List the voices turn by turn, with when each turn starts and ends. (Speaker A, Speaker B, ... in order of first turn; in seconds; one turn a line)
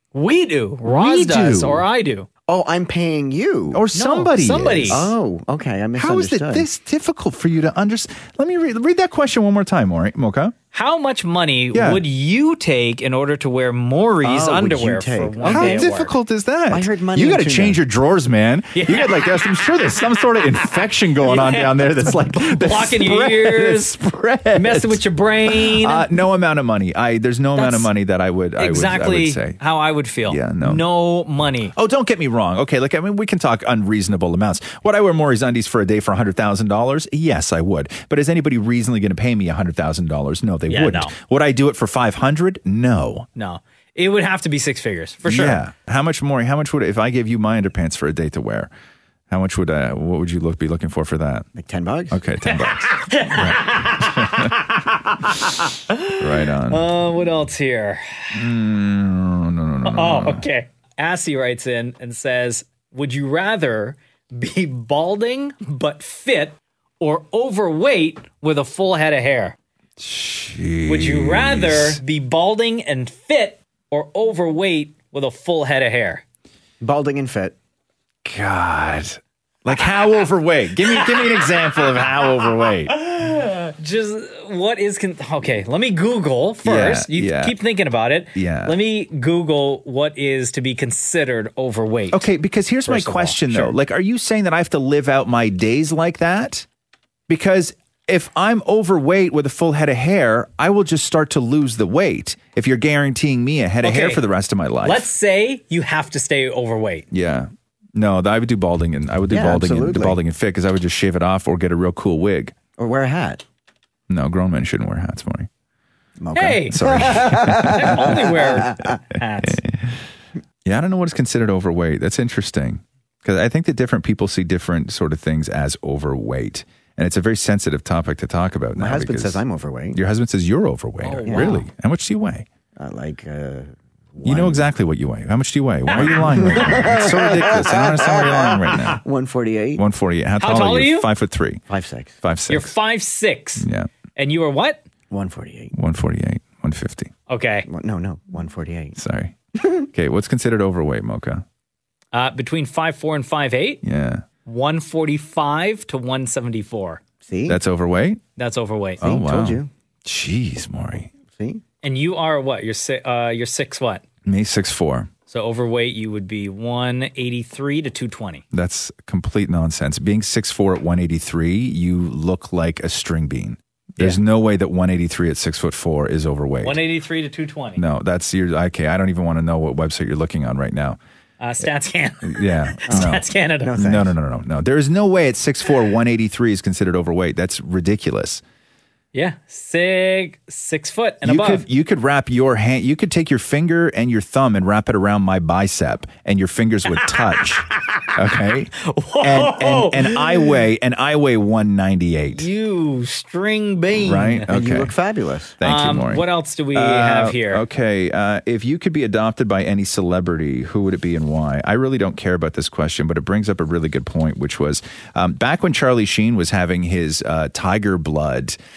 Speaker A: 0.1-2.3
Speaker B: 0.8-1.8
Speaker C: 2.5-4.2
Speaker B: 3.7-5.1
Speaker A: 3.9-5.0
Speaker C: 4.9-6.7
Speaker B: 6.0-10.5
Speaker A: 10.7-16.1
Speaker B: 11.7-12.0
Speaker C: 14.2-15.9
Speaker B: 15.4-29.6
Speaker C: 16.7-17.8
Speaker A: 18.7-19.4
Speaker A: 21.2-23.9
Speaker A: 24.6-26.1
Speaker A: 27.6-27.9
Speaker A: 28.6-31.7
Speaker B: 30.2-30.8
Speaker B: 31.7-43.3
Speaker A: 40.7-41.1
Speaker A: 43.4-45.6
Speaker B: 45.2-48.7
Speaker B: 49.3-51.5
Speaker C: 51.5-52.2
Speaker B: 52.1-54.5
Speaker A: 52.5-58.4
Speaker B: 56.2-56.9
Speaker B: 58.3-60.5
Speaker A: 59.8-69.5
Speaker B: 70.0-72.0
Speaker A: 70.8-76.2
Speaker C: 76.8-77.5
Speaker B: 78.2-82.9
Speaker A: 82.9-92.2
Speaker B: 86.6-87.6
Speaker B: 88.3-88.8
Speaker B: 92.1-96.7
Speaker A: 92.9-93.7
Speaker B: 97.3-105.1
Speaker A: 103.8-104.2
Speaker A: 104.8-107.0
Speaker B: 107.1-112.5
Speaker C: 109.3-110.2
Speaker C: 112.8-113.4
Speaker B: 114.1-115.5
Speaker C: 116.2-119.0
Speaker A: 116.3-119.6
Speaker B: 116.7-118.2
Speaker B: 119.4-120.0
Speaker B: 120.6-129.4
Speaker C: 128.8-130.0
Speaker B: 129.9-132.5
Speaker A: 131.0-131.6
Speaker C: 131.3-131.6
Speaker C: 132.8-134.7
Speaker B: 134.2-139.0
Speaker C: 135.9-139.8
Speaker B: 139.8-141.6
Speaker A: 140.4-141.1
Speaker C: 141.7-142.2
Speaker B: 142.2-142.7
Speaker A: 142.5-144.8
Speaker B: 143.6-143.9
Speaker C: 145.1-145.7
Speaker B: 145.7-147.1
Speaker A: 147.3-147.7
Speaker C: 147.7-149.0
Speaker B: 148.9-149.3
Speaker C: 149.6-149.9
Speaker B: 149.9-151.4
Speaker A: 152.1-153.8
Speaker B: 153.8-154.2
Speaker A: 154.4-157.0
Speaker C: 157.2-157.6
Speaker B: 157.5-158.2
Speaker A: 158.4-159.0
Speaker B: 159.0-161.1
Speaker C: 159.0-159.7
Speaker C: 161.3-161.6
Speaker A: 161.8-164.0
Speaker B: 164.2-165.1
Speaker A: 165.3-168.4
Speaker B: 168.5-176.8
Speaker A: 176.6-177.8
Speaker B: 177.8-181.0
Speaker A: 181.4-183.7
Speaker B: 182.2-183.2
Speaker C: 182.9-184.1
Speaker B: 183.8-188.4
Speaker A: 189.1-191.6
Speaker B: 191.2-202.4
Speaker A: 198.8-200.5
Speaker A: 202.3-204.5
Speaker B: 204.0-204.9
Speaker C: 204.5-205.5
Speaker B: 205.6-218.6
Speaker A: 205.6-207.6